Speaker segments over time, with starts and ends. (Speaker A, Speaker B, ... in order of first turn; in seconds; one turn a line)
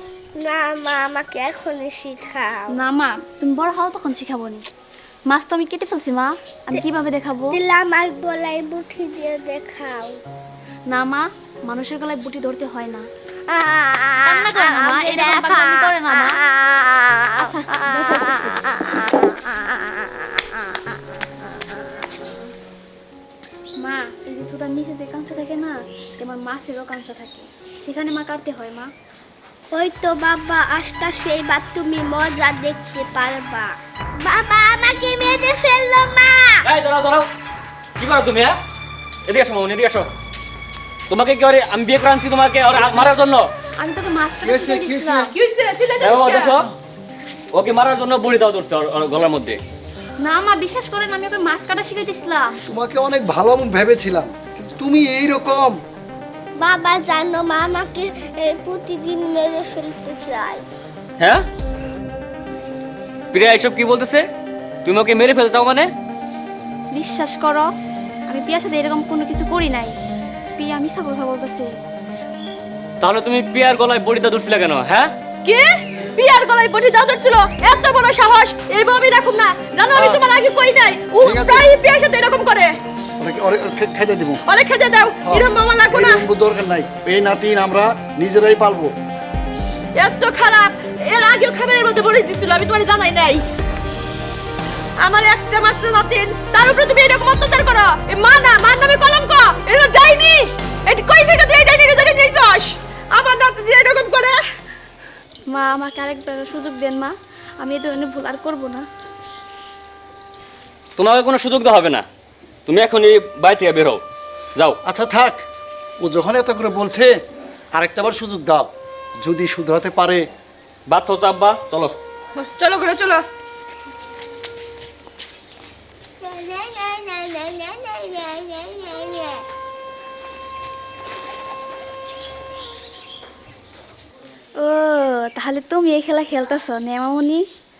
Speaker A: 0.3-2.6
Speaker B: 2.7-4.6
Speaker B: 5.3-7.6
Speaker A: 7.5-10.2
Speaker B: 10.9-13.1
Speaker A: 13.5-15.9
Speaker B: 14.2-16.4
Speaker B: 17.4-18.7
Speaker A: 21.5-22.3
Speaker B: 23.8-28.9
Speaker A: 29.7-36.6
Speaker C: 36.6-37.3
Speaker C: 38.0-38.6
Speaker C: 39.2-40.1
Speaker C: 41.1-43.5
Speaker D: 42.7-43.1
Speaker B: 43.8-45.3
Speaker D: 44.4-45.3
Speaker E: 45.3-46.6
Speaker C: 46.0-46.7
Speaker C: 47.5-49.6
Speaker B: 50.2-52.5
Speaker D: 52.7-55.8
Speaker A: 56.6-60.6
Speaker C: 61.2-61.5
Speaker C: 63.3-64.2
Speaker C: 64.8-65.9
Speaker B: 66.9-67.7
Speaker B: 68.3-69.9
Speaker B: 70.6-71.7
Speaker C: 73.0-75.1
Speaker E: 75.4-82.8
Speaker D: 79.9-80.2
Speaker D: 81.2-81.7
Speaker D: 83.2-84.4
Speaker E: 84.5-86.2
Speaker D: 85.2-88.9
Speaker E: 89.9-93.4
Speaker E: 95.0-104.4
Speaker B: 105.5-108.8
Speaker C: 111.0-112.0
Speaker C: 112.7-114.0
Speaker D: 114.8-115.4
Speaker D: 116.0-117.1
Speaker D: 117.7-118.7
Speaker D: 119.2-120.2
Speaker C: 120.9-122.0
Speaker E: 122.3-123.2
Speaker A: 126.2-129.4
Speaker B: 134.6-137.4